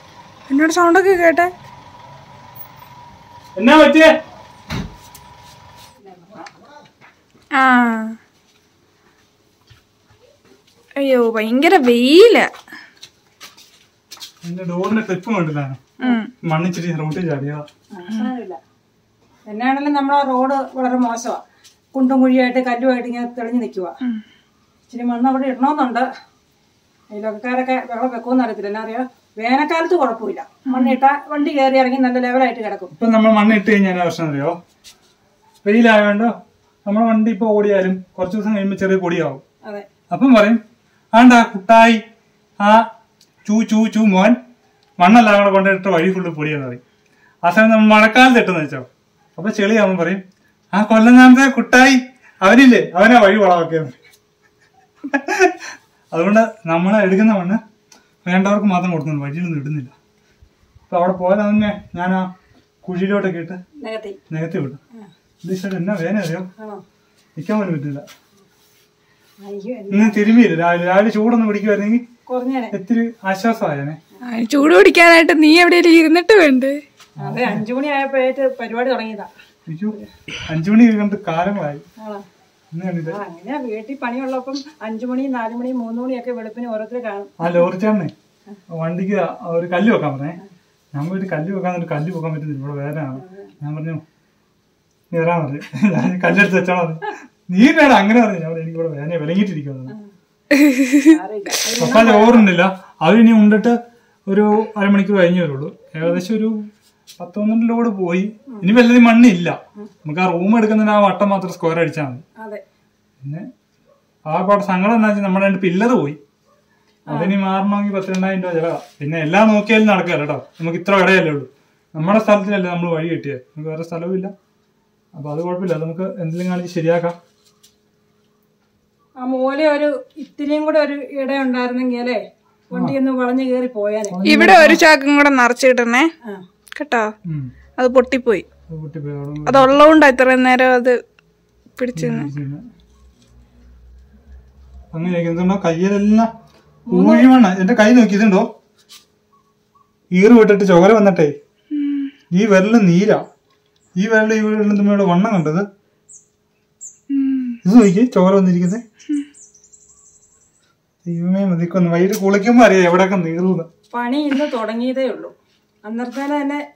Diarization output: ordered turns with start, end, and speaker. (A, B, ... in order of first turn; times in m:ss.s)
0:00.5-0:01.5 A
0:03.6-0:04.1 B
0:06.1-0:06.4 C
0:07.5-0:08.2 A
0:11.0-0:12.5 A
0:14.4-0:15.9 B
0:16.0-0:16.3 A
0:16.4-0:17.6 B
0:17.9-0:18.6 C
0:19.5-0:21.4 C
0:21.9-0:24.0 C
0:24.9-0:26.1 C
0:27.1-0:32.9 C
0:30.7-0:31.0 A
0:33.0-0:34.6 B
0:35.6-0:36.3 B
0:36.9-0:39.4 B
0:40.1-0:40.6 B
0:41.1-0:42.0 B
0:42.6-0:42.9 B
0:43.5-0:44.4 B
0:45.0-0:46.8 B
0:47.4-0:54.0 B
0:55.1-0:55.6 B
0:56.1-0:57.6 B
0:58.2-0:59.9 B
1:00.9-1:02.3 B
1:02.8-1:03.6 B
1:03.8-1:04.2 C
1:04.3-1:04.8 B
1:05.4-1:06.5 B
1:06.6-1:06.8 C
1:07.4-1:08.0 B
1:09.4-1:10.3 C
1:09.9-1:12.0 B
1:12.3-1:12.7 C
1:12.7-1:14.0 B
1:14.2-1:16.8 A
1:17.2-1:17.6 B
1:17.2-1:19.3 C
1:19.7-1:19.9 B
1:20.5-1:21.8 B
1:22.0-1:22.3 C
1:22.7-1:23.2 B
1:23.1-1:27.7 C
1:27.4-1:28.1 B
1:28.7-1:30.4 B
1:30.9-1:34.0 B
1:33.2-1:33.5 C
1:35.1-1:39.9 B
1:40.5-1:41.1 A
1:41.1-1:42.5 C
1:41.8-1:46.6 B
1:47.2-1:52.2 B
1:54.3-1:56.2 B
1:57.1-1:57.4 C
1:57.1-2:04.3 B
2:05.2-2:07.2 B
2:09.2-2:14.2 C
2:14.1-2:14.8 B
2:14.2-2:16.1 A
2:16.8-2:17.1 A
2:17.3-2:17.5 B
2:17.8-2:18.4 A
2:18.7-2:19.7 B
2:19.5-2:21.0 A
2:21.8-2:22.3 A
2:22.0-2:22.6 B
2:24.9-2:26.3 B
2:26.9-2:27.3 C
2:26.9-2:28.5 B
2:30.1-2:31.3 B
2:31.7-2:32.1 A
2:32.3-2:33.2 B
2:34.0-2:35.7 B
2:37.1-2:37.6 A
2:37.6-2:38.8 B
2:41.0-2:43.7 B
2:43.9-2:45.3 C
2:45.8-2:46.6 C